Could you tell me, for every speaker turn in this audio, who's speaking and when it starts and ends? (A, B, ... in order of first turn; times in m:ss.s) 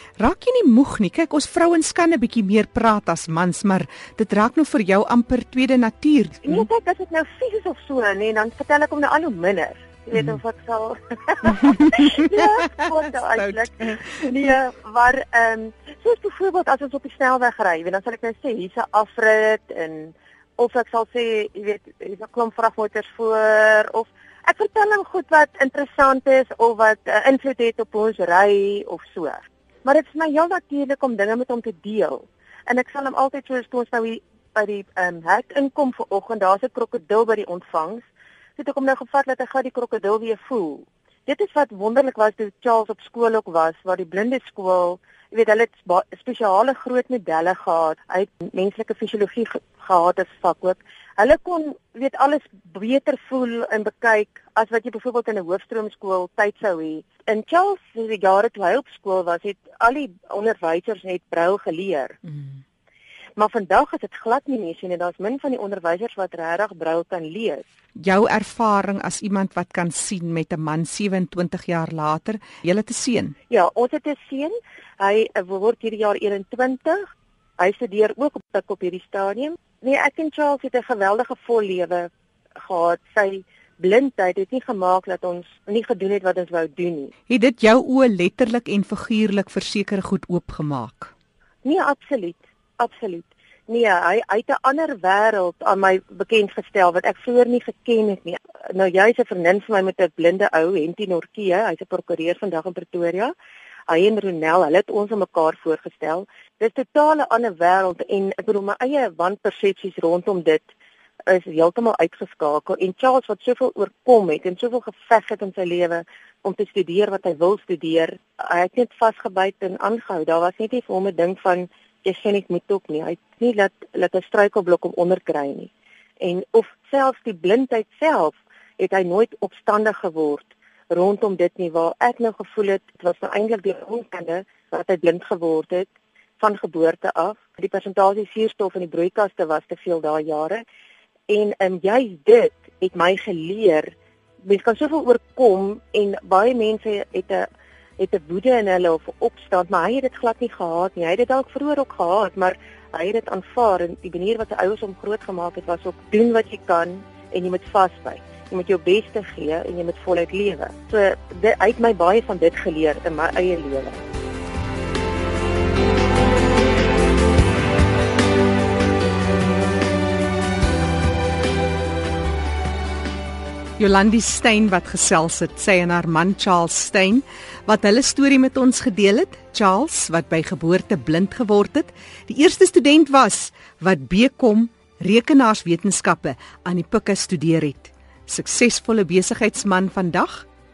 0:00.2-0:06.6 A
0:06.4-1:02.2 B
0:11.5-0:12.2 A
1:03.4-1:07.6 B
1:08.0-1:13.4 A
1:13.5-1:17.1 B
1:17.6-1:22.1 B
1:22.6-1:27.1 B
1:27.3-1:31.1 A
1:31.6-1:43.3 B
1:43.9-1:50.7 B
1:51.3-2:05.7 B
2:06.2-2:20.6 B
2:21.3-2:23.9 B
2:24.4-2:27.5 B
2:28.0-2:44.0 B
2:53.8-3:10.5 A